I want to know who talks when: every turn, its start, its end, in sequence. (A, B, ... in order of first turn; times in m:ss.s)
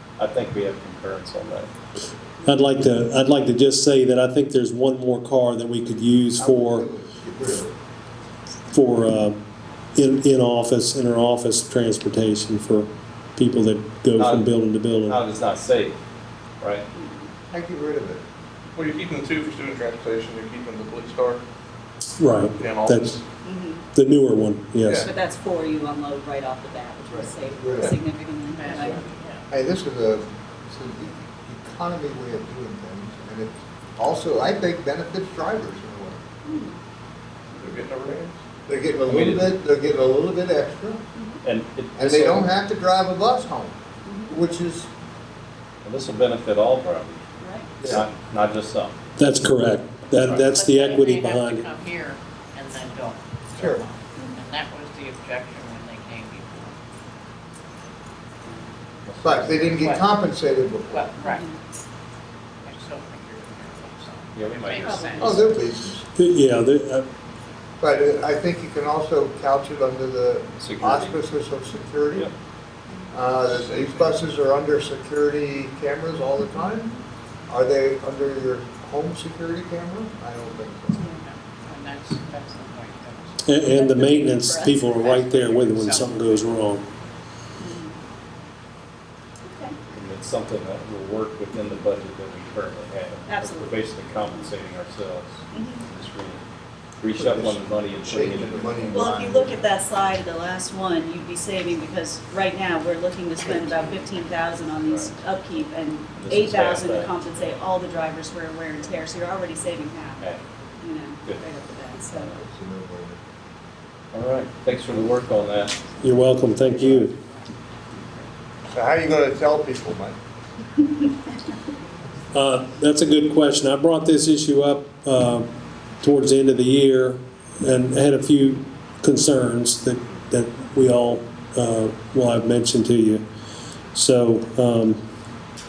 0:00.2-0:01.7 A
0:02.4-0:06.9 B
0:06.4-0:07.7 C
0:08.7-0:09.4 B
0:10.0-0:15.2 B
0:14.2-0:14.5 A
0:15.0-0:16.0 A
0:16.6-0:16.9 A
0:17.0-0:17.3 D
0:17.5-0:18.2 C
0:18.8-0:21.4 E
0:22.2-0:23.2 B
0:22.6-0:23.2 E
0:23.4-0:23.8 D
0:23.9-0:25.1 B
0:24.8-0:25.1 E
0:25.0-0:29.0 D
0:27.1-0:28.0 C
0:28.6-0:29.4 F
0:29.5-0:36.2 C
0:36.4-0:36.8 D
0:37.5-0:38.4 E
0:38.7-0:41.0 C
0:39.1-0:39.5 A
0:41.2-0:41.4 D
0:41.4-0:42.5 A
0:42.0-0:43.8 C
0:44.1-0:44.4 D
0:44.3-0:44.9 C
0:45.8-0:47.2 A
0:47.4-0:47.7 D
0:47.8-0:48.1 C
0:47.8-0:49.0 A
0:49.2-0:51.7 B
0:50.2-0:50.5 A
0:50.4-0:56.8 F
0:53.6-0:53.8 C
0:59.0-0:59.9 A
0:59.2-1:01.1 C
0:59.8-1:00.1 F
1:00.9-1:01.4 F
1:01.2-1:01.6 D
1:02.7-1:05.5 F
1:04.4-1:05.6 A
1:04.8-1:05.4 D
1:05.2-1:06.0 C
1:06.2-1:07.1 B
1:07.8-1:12.3 C
1:10.6-1:11.2 A
1:13.1-1:17.0 C
1:13.4-1:14.2 E
1:17.5-1:21.1 C
1:21.2-1:26.6 F
1:23.4-1:26.8 B
1:23.7-1:24.8 D
1:27.6-1:28.0 D
1:29.4-1:29.8 D
1:29.9-1:36.4 A
1:33.3-1:34.4 D
1:35.5-1:35.8 D
1:37.0-1:39.0 A
1:37.2-1:39.6 C
1:38.9-1:52.3 D
1:44.8-1:45.1 A
1:46.2-1:47.1 A
1:52.2-1:53.2 C
1:54.1-1:55.8 A
1:56.0-1:57.1 B
1:56.1-1:57.4 F
1:58.7-2:00.2 C
2:02.3-2:05.5 B
2:06.0-2:13.2 B
2:14.0-2:15.0 B